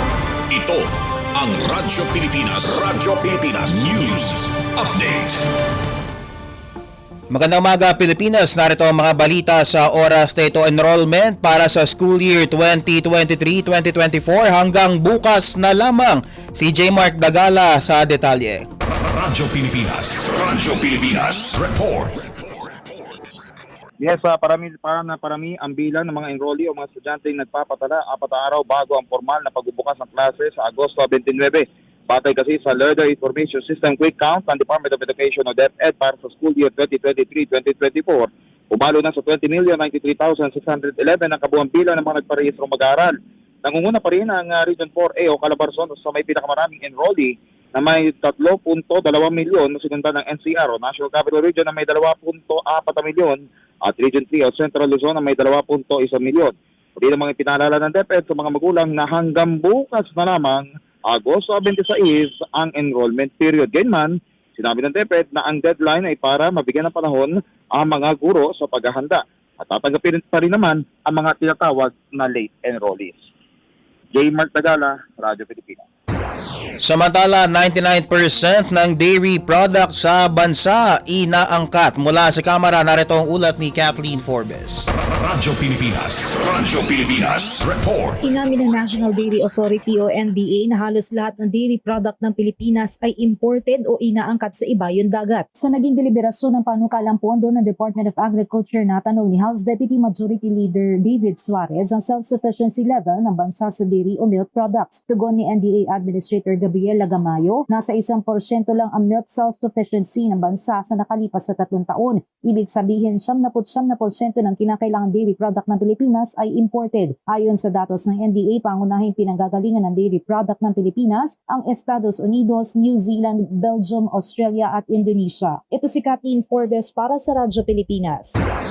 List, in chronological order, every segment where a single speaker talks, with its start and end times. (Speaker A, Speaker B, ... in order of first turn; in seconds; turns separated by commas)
Speaker A: 0.5-5.4, Speaker B: 7.3-18.6, Speaker A: 19.1-22.2, Speaker C: 24.0-73.2, Speaker C: 74.1-75.8, Speaker B: 76.8-84.9, Speaker A: 85.2-88.2, Speaker D: 88.2-128.4